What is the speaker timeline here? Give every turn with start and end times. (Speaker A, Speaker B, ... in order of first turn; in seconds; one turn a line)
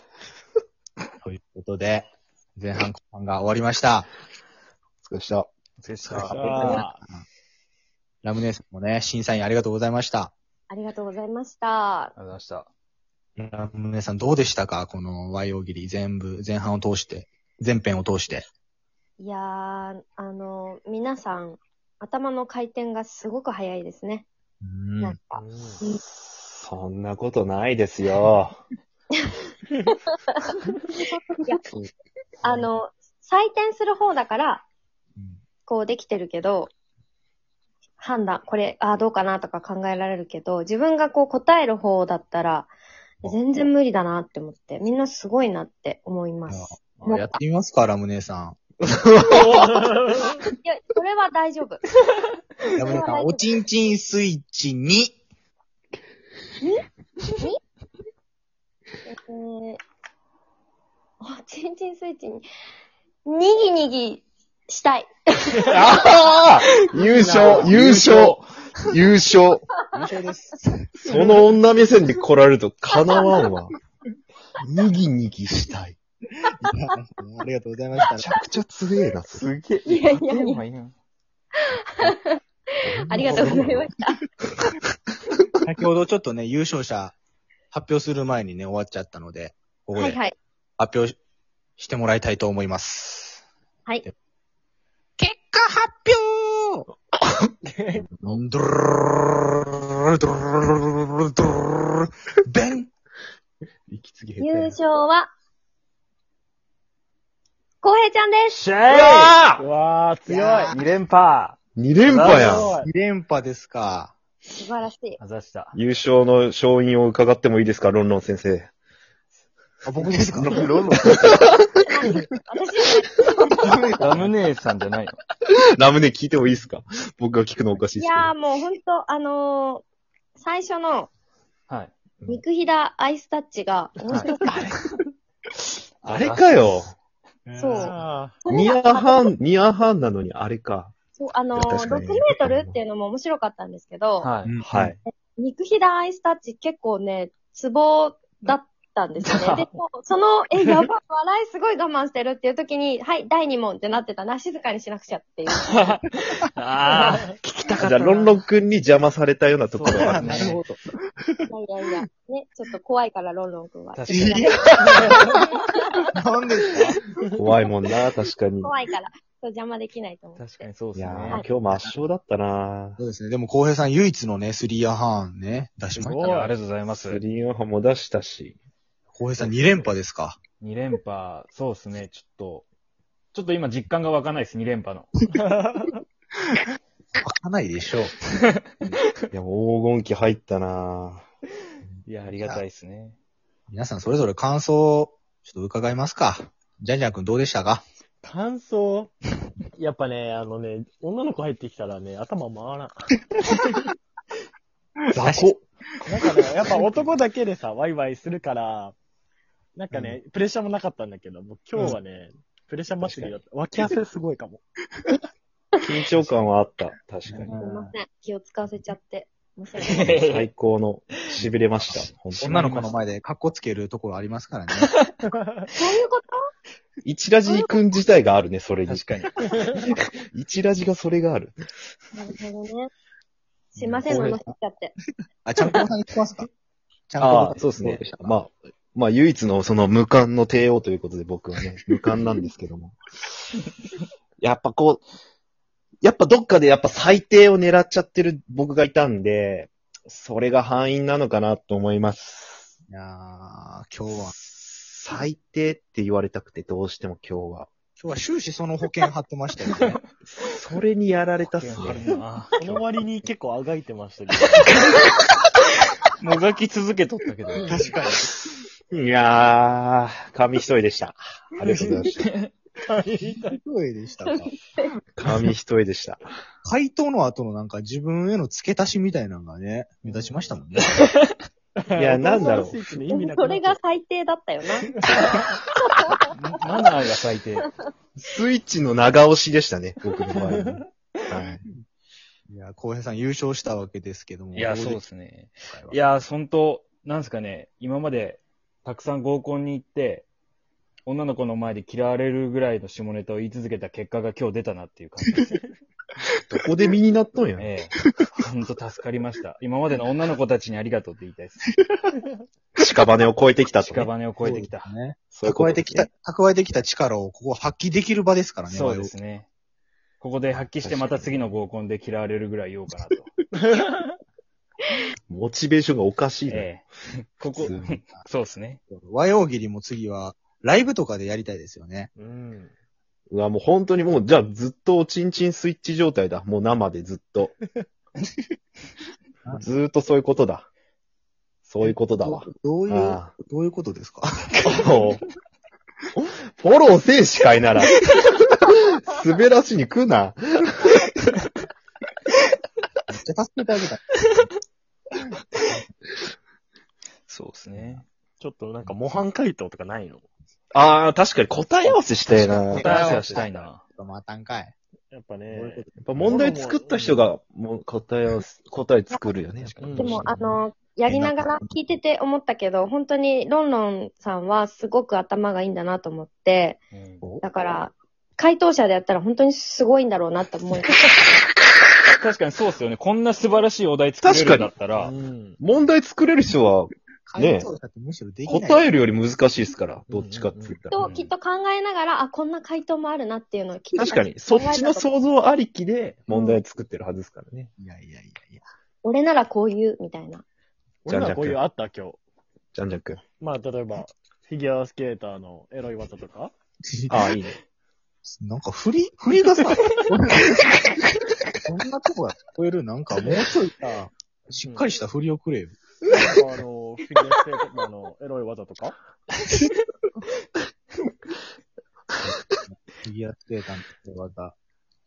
Speaker A: 1.2-4.1
Speaker B: 5.0-5.5
Speaker C: 5.8-6.9
Speaker A: 6.1-7.2
Speaker D: 6.2-7.0
Speaker A: 8.2-10.3
Speaker E: 10.7-12.2
Speaker C: 12.2-12.7
Speaker A: 13.4-18.5
Speaker E: 19.2-24.3
Speaker A: 24.6-25.2
Speaker E: 25.0-26.0
Speaker D: 25.3-25.8
Speaker B: 26.0-28.6
Speaker E: 30.4-30.7
Speaker A: 31.4-31.9
Speaker E: 32.4-34.7
Speaker E: 35.7-36.7
Speaker E: 38.0-42.7
Speaker E: 43.2-47.4
Speaker A: 46.5-48.6
Speaker B: 48.8-49.9
Speaker D: 49.4-50.4
Speaker E: 50.6-51.8
Speaker A: 52.8-55.2
Speaker E: 52.8-53.5
Speaker E: 56.6-57.6
Speaker E: 59.1-59.8
Speaker E: 61.2-62.5
Speaker E: 63.2-65.9
Speaker B: 65.7-69.7
Speaker D: 67.1-68.3
Speaker E: 69.8-70.0
Speaker A: 69.9-70.9
Speaker B: 71.0-73.7
Speaker E: 73.0-73.4
Speaker B: 74.6-76.0
Speaker A: 76.6-78.3
Speaker B: 78.2-79.5
Speaker C: 79.3-80.9
Speaker E: 79.9-80.6
Speaker E: 82.0-82.4
Speaker B: 82.8-83.9
Speaker E: 83.0-84.6
Speaker A: 83.1-83.8
Speaker A: 85.6-87.2
Speaker A: 87.7-90.2
Speaker E: 90.0-90.3
Speaker A: 90.8-91.2
Speaker A: 91.8-93.4
Speaker A: 95.2-96.8
Speaker D: 97.7-98.1
Speaker A: 98.0-102.9
Speaker B: 103.9-104.8
Speaker E: 104.4-105.3
Speaker E: 107.8-108.6
Speaker C: 108.5-109.6
Speaker D: 109.0-110.7
Speaker A: 110.3-110.8
Speaker C: 110.7-111.6
Speaker B: 111.8-112.7
Speaker D: 112.1-112.9
Speaker A: 112.2-114.1
Speaker E: 114.5-115.2
Speaker C: 115.2-115.8
Speaker B: 115.7-118.7
Speaker A: 119.8-121.4
Speaker B: 120.4-121.7
Speaker E: 121.9-124.0
Speaker A: 123.6-124.3
Speaker C: 124.0-125.2
Speaker B: 125.8-128.3
Speaker E: 127.9-129.8
Speaker E: 130.4-131.1
Speaker E: 132.3-134.7
Speaker C: 134.1-134.5
Speaker C: 136.0-136.9
Speaker B: 136.0-136.9
Speaker A: 137.5-138.0
Speaker E: 137.6-137.9
Speaker D: 137.8-138.4
Speaker E: 138.5-139.3
Speaker B: 138.5-140.9
Speaker E: 141.2-144.3
Speaker B: 141.5-142.8
Speaker C: 144.2-145.0
Speaker A: 144.4-144.9
Speaker B: 144.7-145.0
Speaker E: 145.4-155.9
Speaker C: 149.2-149.7
Speaker C: 155.5-158.4
Speaker D: 156.9-157.3
Speaker B: 157.8-160.5
Speaker C: 159.7-160.6
Speaker A: 159.9-161.3
Speaker E: 161.5-166.0
Speaker C: 163.9-164.8
Speaker A: 164.1-165.4
Speaker A: 166.2-166.9
Speaker B: 167.4-168.7
Speaker E: 168.6-170.5
Speaker C: 170.4-171.5
Speaker B: 170.9-173.0
Speaker A: 171.7-172.0
Speaker A: 173.0-176.5
Speaker D: 175.9-176.5
Speaker C: 176.2-177.2
Speaker B: 176.9-178.6
Speaker A: 179.1-180.4
Speaker C: 180.6-182.7
Speaker C: 183.3-185.2
Speaker D: 185.3-186.0
Speaker A: 187.2-188.2
Speaker B: 189.3-191.2
Speaker C: 192.1-193.2
Speaker A: 193.7-197.8
Speaker D: 198.2-199.1
Speaker D: 199.8-203.1
Speaker B: 205.1-205.6
Speaker A: 205.2-205.5
Speaker D: 206.1-209.0
Speaker D: 209.8-214.6
Speaker A: 209.9-210.2
Speaker B: 215.8-217.5
Speaker A: 217.3-217.9
Speaker E: 217.6-220.3
Speaker C: 219.8-220.5
Speaker B: 220.0-222.8
Speaker A: 221.9-224.9
Speaker C: 222.5-222.9
Speaker C: 224.8-225.1
Speaker D: 225.3-225.7
Speaker E: 225.7-226.4
Speaker B: 227.0-231.6
Speaker C: 228.9-229.4
Speaker D: 229.5-229.8
Speaker E: 232.1-232.9
Speaker E: 233.7-234.9
Speaker A: 233.8-234.5
Speaker B: 234.1-234.4
Speaker A: 235.4-236.5
Speaker A: 237.1-238.4
Speaker B: 237.2-243.0
Speaker B: 244.4-245.0
Speaker B: 246.0-252.7
Speaker A: 252.9-254.3
Speaker B: 254.2-257.7
Speaker A: 258.0-260.0
Speaker B: 260.4-262.1
Speaker C: 261.4-262.6
Speaker D: 262.6-264.7
Speaker C: 266.2-267.8
Speaker D: 267.6-268.2
Speaker A: 267.6-268.3
Speaker B: 268.9-272.2
Speaker D: 271.6-272.0
Speaker C: 272.2-272.5
Speaker D: 272.9-273.6
Speaker A: 273.4-274.5
Speaker E: 274.3-274.9
Speaker B: 275.2-276.2
Speaker A: 276.6-281.0
Speaker D: 280.1-280.5
Speaker C: 280.9-281.3
Speaker D: 281.8-283.8
Speaker B: 281.9-282.9
Speaker E: 283.1-286.3
Speaker D: 285.1-285.5
Speaker C: 286.3-287.7
Speaker B: 288.2-291.5
Speaker D: 290.6-290.9
Speaker A: 291.4-291.7
Speaker A: 292.5-295.1
Speaker C: 294.5-300.3
Speaker A: 295.6-296.2
Speaker C: 301.1-305.6
Speaker B: 306.5-307.7
Speaker C: 307.6-311.7
Speaker B: 312.8-314.1
Speaker C: 313.8-314.9
Speaker A: 314.4-319.1
Speaker B: 315.3-316.1
Speaker C: 318.7-319.5
Speaker C: 320.2-323.3
Speaker B: 320.8-321.4
Speaker D: 323.6-324.2
Speaker B: 325.3-326.7
Speaker C: 326.5-328.8
Speaker A: 327.6-328.2
Speaker A: 328.9-332.1
Speaker D: 332.2-332.7
Speaker B: 333.3-337.5
Speaker B: 339.5-340.7
Speaker B: 341.6-343.3
Speaker A: 341.8-344.6
Speaker B: 344.6-345.2
Speaker B: 346.2-348.0
Speaker B: 348.7-351.1
Speaker A: 353.1-354.5
Speaker C: 357.3-358.1
Speaker A: 357.8-358.0
Speaker D: 358.4-360.3
Speaker B: 360.7-363.1
Speaker C: 362.3-363.8
Speaker A: 362.7-364.8
Speaker D: 365.1-367.3
Speaker A: 365.5-366.4
Speaker B: 366.0-370.3
Speaker C: 369.6-370.3
Speaker D: 369.8-370.1
Speaker E: 370.0-376.8
Speaker A: 371.1-371.6
Speaker C: 376.9-377.2
Speaker E: 377.4-381.0
Speaker C: 382.1-385.1
Speaker B: 384.2-384.7
Speaker D: 385.0-385.6
Speaker B: 385.6-387.7
Speaker A: 387.3-388.9
Speaker B: 388.5-391.1
Speaker D: 390.1-391.2
Speaker E: 390.9-395.1
Speaker B: 394.0-397.7
Speaker E: 396.3-396.6
Speaker A: 397.8-398.6
Speaker E: 399.0-400.4
Speaker D: 401.1-402.2
Speaker B: 401.1-401.6
Speaker B: 402.7-403.2
Speaker D: 403.4-406.5
Speaker A: 406.9-407.3
Speaker B: 407.1-407.6
Speaker A: 408.3-410.8
Speaker A: 411.6-415.8
Speaker D: 414.6-414.9
Speaker D: 416.1-419.0
Speaker A: 422.3-424.6